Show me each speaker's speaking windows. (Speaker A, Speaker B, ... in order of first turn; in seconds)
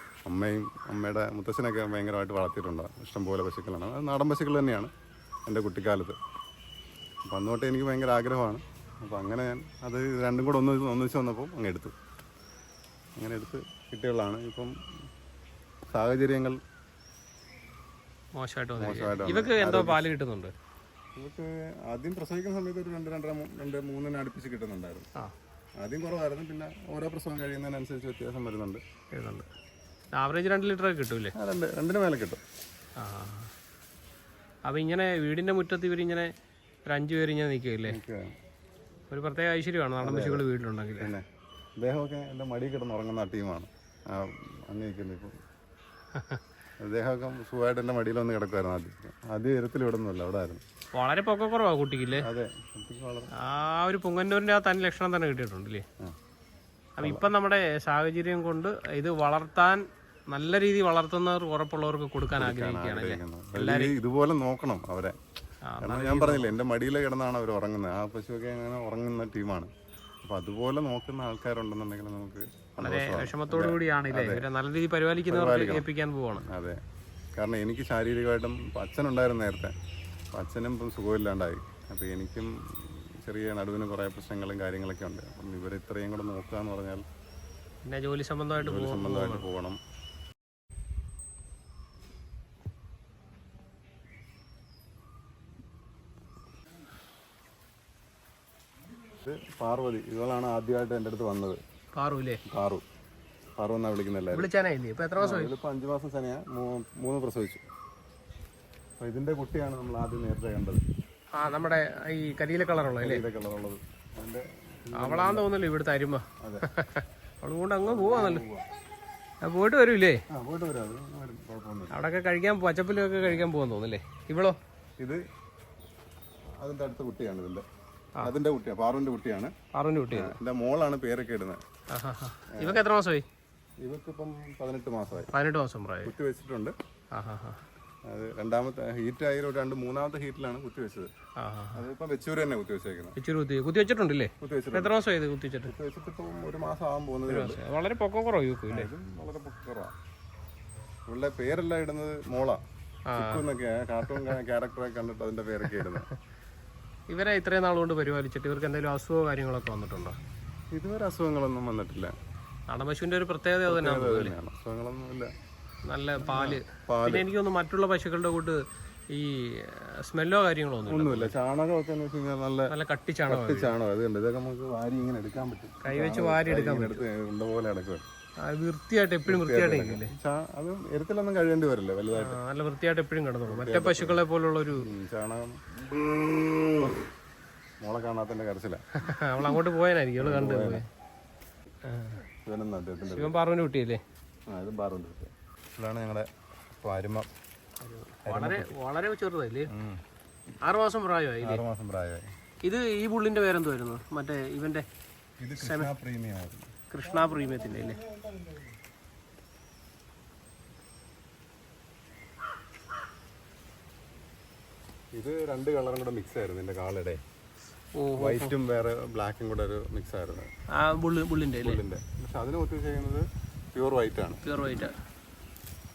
Speaker A: 0.3-4.9, 5.5-6.2, 7.3-11.9, 13.2-14.7, 15.9-16.6, 18.8-20.0, 21.2-25.1, 25.8-28.8, 31.4-32.4, 37.9-38.2, 40.0-40.5, 41.0-41.2, 41.8-45.4, 46.8-50.6, 52.2-53.3, 57.0-57.3, 62.4-65.2, 65.8-69.7, 70.2-74.5, 75.3-75.9, 76.5-76.8, 77.4-79.7, 80.3-87.0, 88.6-89.8, 99.1-101.6, 102.5-102.8, 103.6-104.5, 105.2-107.6, 109.0-110.8, 113.0-115.6, 116.4-116.7, 117.8-118.7, 120.3-122.0, 123.2-123.5, 126.6-127.6, 128.2-129.5, 130.1-131.6, 132.5-132.8, 133.8-135.3, 136.0-136.7, 138.1-141.1, 141.8-143.2, 144.4-144.9, 145.7-147.6, 148.7-149.9, 151.1-152.6, 153.1-156.1, 160.7-162.1, 163.6-165.3, 166.2-167.3, 170.8-172.7, 173.3-178.1, 179.2-182.4, 183.5-184.2, 184.8-185.6, 186.3-187.0, 187.8-188.9, 190.2-190.8, 192.4-193.3, 194.5-196.3, 196.8-197.3, 198.2-198.7, 199.7-200.0, 201.4-202.2, 205.4-208.8, 215.2-217.2, 218.2-220.5, 221.6-224.9
Speaker B: 18.4-20.5, 29.1-29.5, 30.1-31.3, 33.0-33.5, 34.7-36.3, 36.9-38.0, 39.1-41.1, 46.1-46.4, 50.9-52.3, 53.4-55.8, 57.0-63.9, 65.7-66.5, 72.8-76.4, 87.8-89.5, 101.9-102.4, 104.3-105.5, 111.4-113.2, 115.0-118.4, 119.4-120.2, 121.9-124.6, 129.7-130.4, 131.9-133.2, 135.3-136.1, 137.1-137.6, 141.4-141.8, 143.2-145.7, 147.3-148.9, 153.1-153.4, 154.1-154.3, 155.7-156.1, 157.1-160.2, 162.7-164.3, 165.9-168.6, 169.1-171.3, 172.7-173.7, 175.8-177.0, 178.4-180.1, 182.1-184.9, 189.0-190.8, 191.9-192.2, 193.1-194.0, 197.8-199.7, 200.6-201.6, 202.6-204.8, 205.6-205.9, 206.9-208.0, 217.9-218.5, 220.8-221.8, 224.4-224.9